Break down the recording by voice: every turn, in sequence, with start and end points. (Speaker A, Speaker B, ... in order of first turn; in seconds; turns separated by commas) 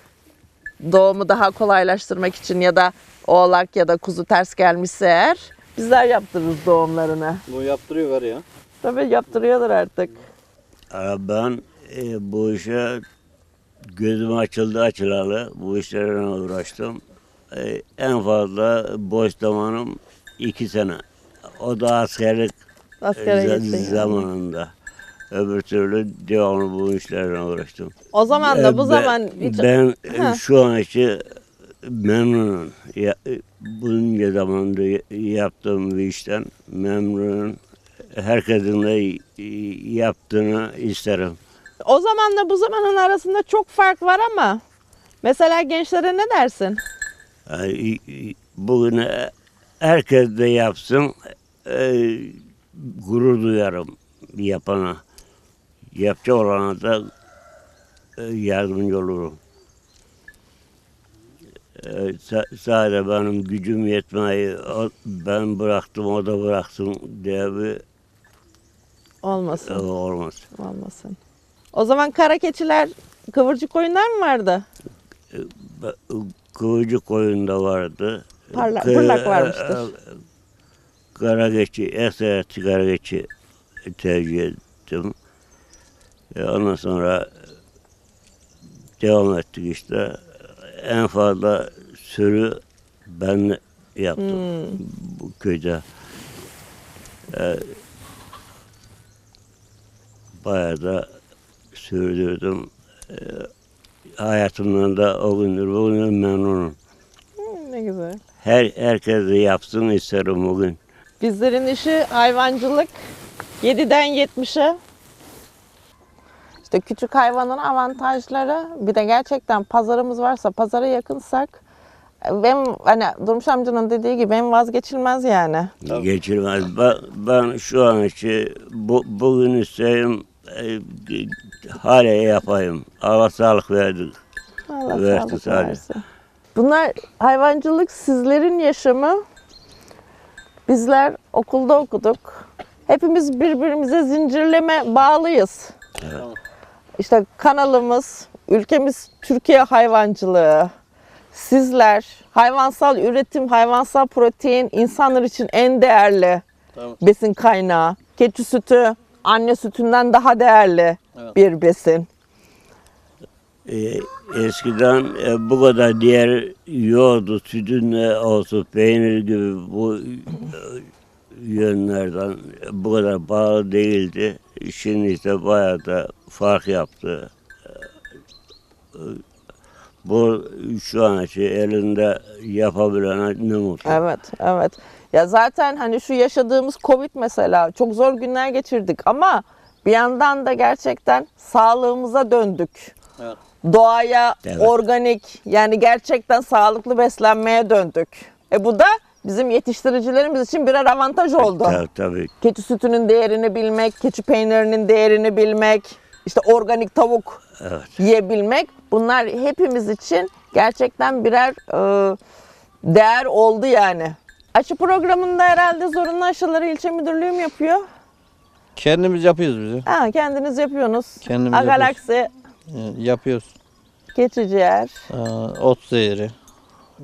Speaker A: 0.8-7.4, Speaker B: 7.5-8.4, Speaker A: 8.8-10.2, Speaker C: 10.9-13.0, Speaker C: 13.9-21.0, Speaker C: 21.6-22.6, Speaker A: 23.0-24.2, Speaker C: 23.2-24.7, Speaker C: 25.3-37.6, Speaker A: 28.1-30.4, Speaker C: 38.2-41.4, Speaker A: 41.8-44.6, Speaker A: 45.2-46.8, Speaker C: 47.5-55.0, Speaker C: 55.9-57.0, Speaker C: 58.2-59.4, Speaker C: 61.8-67.8, Speaker A: 69.2-69.8, Speaker C: 69.6-70.4, Speaker A: 70.5-71.2, Speaker A: 71.7-74.7, Speaker C: 75.3-80.0, Speaker A: 78.5-79.9, Speaker C: 81.2-83.3, Speaker C: 83.9-85.2, Speaker C: 86.3-87.3, Speaker C: 89.0-95.8, Speaker A: 94.2-94.8, Speaker C: 97.3-97.8, Speaker C: 100.4-101.1, Speaker C: 101.7-103.5, Speaker C: 104.2-106.8, Speaker A: 107.4-108.2, Speaker C: 108.4-110.8, Speaker A: 111.2-112.9, Speaker A: 113.6-114.8, Speaker A: 116.7-121.6, Speaker A: 122.2-125.7, Speaker C: 125.8-134.2, Speaker A: 134.7-136.0, Speaker C: 134.9-135.8, Speaker A: 136.6-139.2, Speaker A: 140.7-145.7, Speaker A: 147.0-150.7, Speaker A: 151.3-156.4, Speaker A: 157.0-162.1, Speaker C: 163.7-177.8, Speaker C: 178.9-179.2, Speaker C: 180.0-184.0, Speaker A: 183.8-192.9, Speaker A: 193.6-201.8, Speaker C: 194.4-194.7, Speaker C: 201.4-202.3, Speaker A: 202.4-207.4, Speaker C: 207.6-207.9, Speaker A: 208.0-212.2, Speaker A: 212.8-217.8, Speaker B: 218.8-219.9, Speaker A: 219.9-222.3, Speaker B: 221.2-221.9, Speaker B: 222.7-223.5, Speaker A: 224.1-224.9, Speaker B: 225.1-226.3